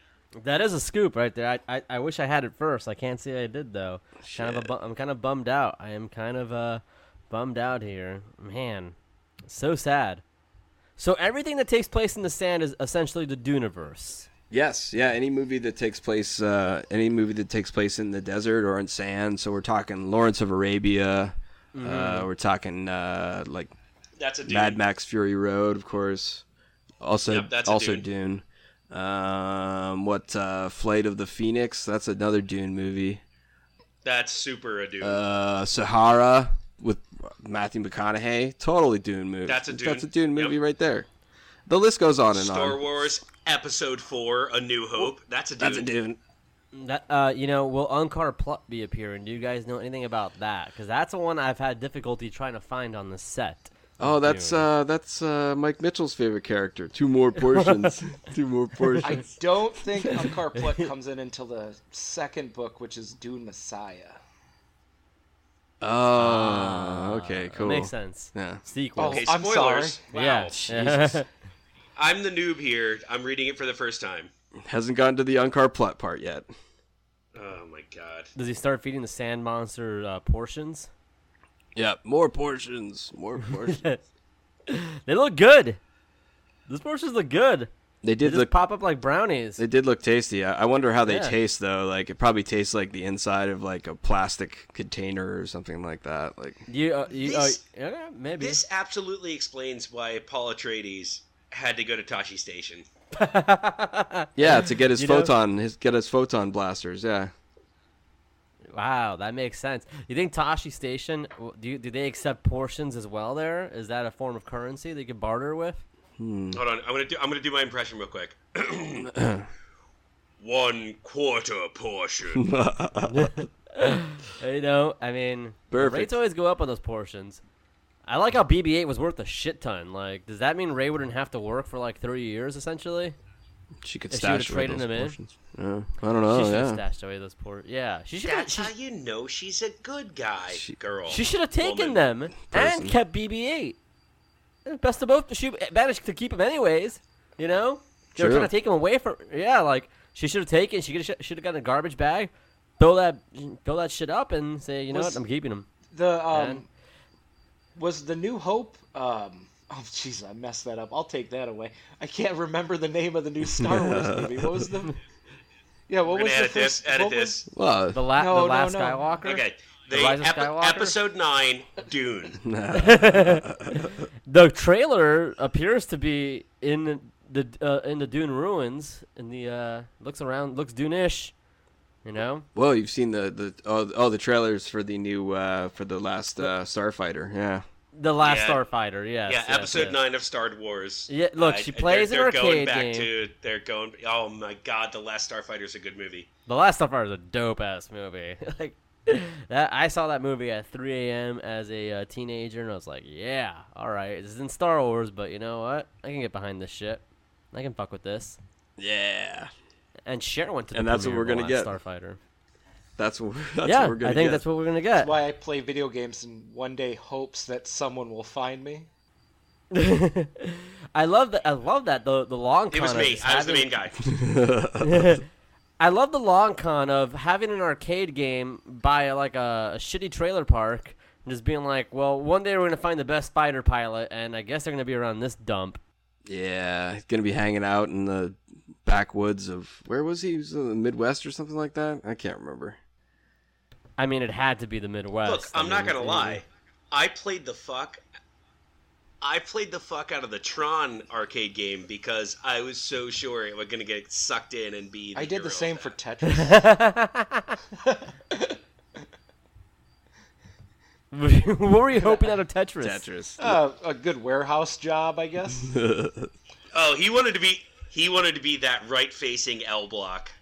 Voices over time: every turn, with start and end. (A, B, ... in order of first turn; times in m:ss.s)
0:00.4-0:09.0 A
0:04.2-0:04.7 B
0:09.5-0:10.2 A
0:11.0-0:14.3 A
0:14.5-0:23.7 B
0:21.7-0:22.3 A
0:24.2-0:24.8 C
0:24.5-0:26.4 B
0:27.0-0:33.2 B
0:27.3-0:28.1 C
0:34.0-0:35.2 C
0:35.0-0:41.1 B
0:39.5-0:40.6 C
0:41.7-0:42.8 B
0:42.3-0:45.9 C
0:45.0-0:46.2 B
0:46.7-0:54.7 A
0:54.0-0:59.2 B
0:57.4-0:58.0 A
0:58.9-0:59.2 A
0:59.0-1:04.2 D
1:00.1-1:00.9 A
1:05.8-1:08.6 B
1:06.1-1:09.3 A
1:09.0-1:10.0 D
1:09.0-1:10.6 C
1:10.1-1:11.3 A
1:10.5-1:11.2 B
1:12.0-1:14.3 C
1:14.6-1:16.5 B
1:17.3-1:18.3 C
1:18.4-1:20.9 A
1:21.8-1:23.8 B
1:23.5-1:24.0 A
1:24.7-1:25.8 A
1:26.7-1:29.6 A
1:28.0-1:28.5 B
1:29.6-1:36.7 B
1:31.0-1:31.4 A
1:36.7-1:38.6 A
1:37.1-1:37.6 C
1:38.4-1:42.8 C
1:43.1-1:45.3 A
1:44.4-1:47.3 B
1:48.7-1:55.8 A
1:56.2-1:56.6 B
1:56.5-1:59.1 C
1:59.1-1:59.5 B
2:00.4-2:02.4 C
2:02.3-2:03.4 B
2:03.1-2:07.4 A
2:05.7-2:06.2 B
2:08.1-2:13.2 A
2:13.8-2:16.8 B
2:14.1-2:15.2 A
2:16.2-2:18.7 A
2:18.2-2:22.0 C
2:21.1-2:23.8 A
2:22.5-2:23.0 B
2:24.7-2:35.7 A
2:28.2-2:28.5 B
2:34.9-2:35.2 D
2:35.9-2:36.7 D
2:36.3-2:36.6 A
2:37.8-2:44.9 D
2:43.5-2:44.7 B
2:45.9-2:47.4 D
2:46.1-2:47.5 C
2:47.5-2:48.0 B
2:47.9-2:51.0 A
2:48.1-2:49.1 D
2:49.2-2:52.4 C
2:52.4-2:54.1 B
2:52.7-3:01.3 A
3:02.0-3:02.5 A
3:02.6-3:07.6 B
3:07.9-3:10.0 A
3:08.2-3:08.6 C
3:09.3-3:16.3 C
3:11.1-3:13.1 A
3:16.5-3:28.4 A
3:28.8-3:29.5 B
3:30.1-3:32.2 A
3:30.7-3:31.8 B
3:33.0-3:34.4 B
3:33.6-3:35.1 A
3:35.0-3:38.9 D
3:39.7-3:43.8 A
3:42.7-3:44.1 C
3:44.0-3:45.2 B
3:44.8-3:45.2 A
3:45.8-3:55.8 A
3:56.3-4:02.8 B
4:04.0-4:06.4 A
4:05.2-4:08.0 C
4:09.2-4:15.9 C
4:15.2-4:16.7 D
4:16.3-4:17.5 A
4:17.9-4:18.6 D
4:21.1-4:23.0 A
4:22.0-4:22.4 D
4:22.8-4:23.6 B
4:23.4-4:25.7 D
4:25.6-4:26.3 B
4:26.7-4:30.3 C